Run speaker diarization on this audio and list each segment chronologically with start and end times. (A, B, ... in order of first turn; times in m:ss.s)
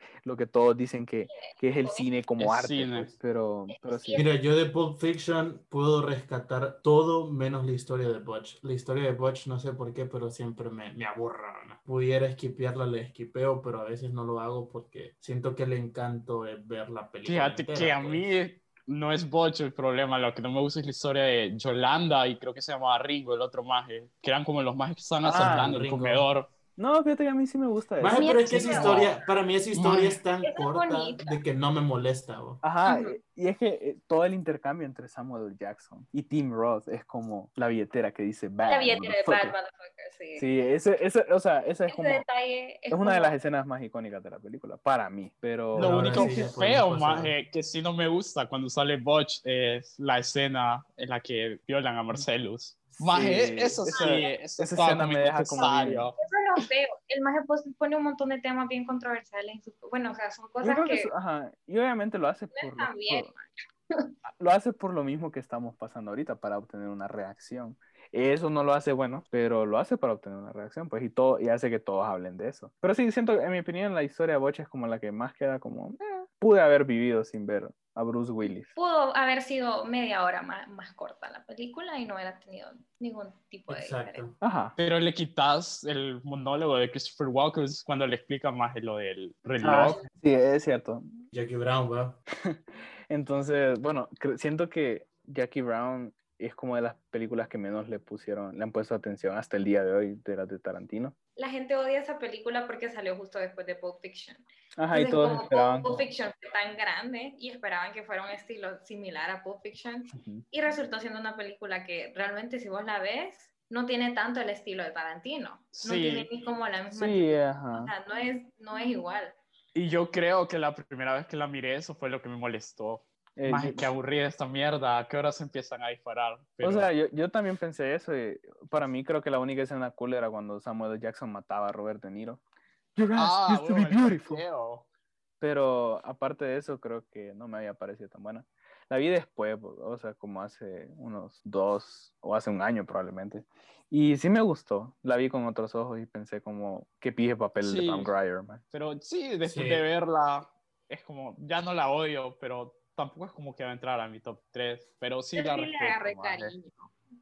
0:00.2-0:04.2 A
0:01.3-0:02.1 B
0:02.4-0:03.1 C
0:03.7-0:04.3 B
0:04.1-0:18.2 D
0:17.2-0:26.5 C
0:25.2-0:25.9 A
0:25.3-0:26.3 D
0:26.8-0:29.1 A
0:28.0-0:32.6 D
0:28.1-0:29.1 B
0:29.7-0:30.2 C
0:30.4-0:31.4 B
0:32.6-0:39.6 A
0:32.9-0:33.2 B
0:38.7-0:40.5 B
0:40.4-0:42.2 A
0:41.9-0:43.3 B
0:42.9-0:46.5 A
0:45.7-0:47.3 D
0:45.8-0:56.2 C
0:53.0-0:53.5 D
0:53.1-0:56.1 A
0:53.9-0:54.4 B
0:56.2-1:01.1 B
1:00.6-1:03.3 A
1:02.5-1:04.1 B
1:04.3-1:18.7 A
1:18.7-1:24.2 B
1:23.7-1:24.4 D
1:24.4-1:24.8 A
1:24.8-1:30.0 C
1:29.6-1:31.0 A
1:31.3-1:32.2 D
1:32.4-1:41.2 A
1:41.4-1:59.4 B
1:44.8-1:46.0 A
1:50.1-1:50.4 A
1:55.7-1:56.3 C
1:56.9-1:57.9 A
1:59.8-2:06.9 C
2:03.4-2:03.9 A
2:06.6-2:12.4 A
2:13.0-2:14.4 A
2:13.2-2:14.9 C
2:15.4-2:28.6 A
2:27.6-2:28.1 C
2:28.7-2:36.5 C
2:29.4-2:29.8 D
2:35.4-2:36.9 B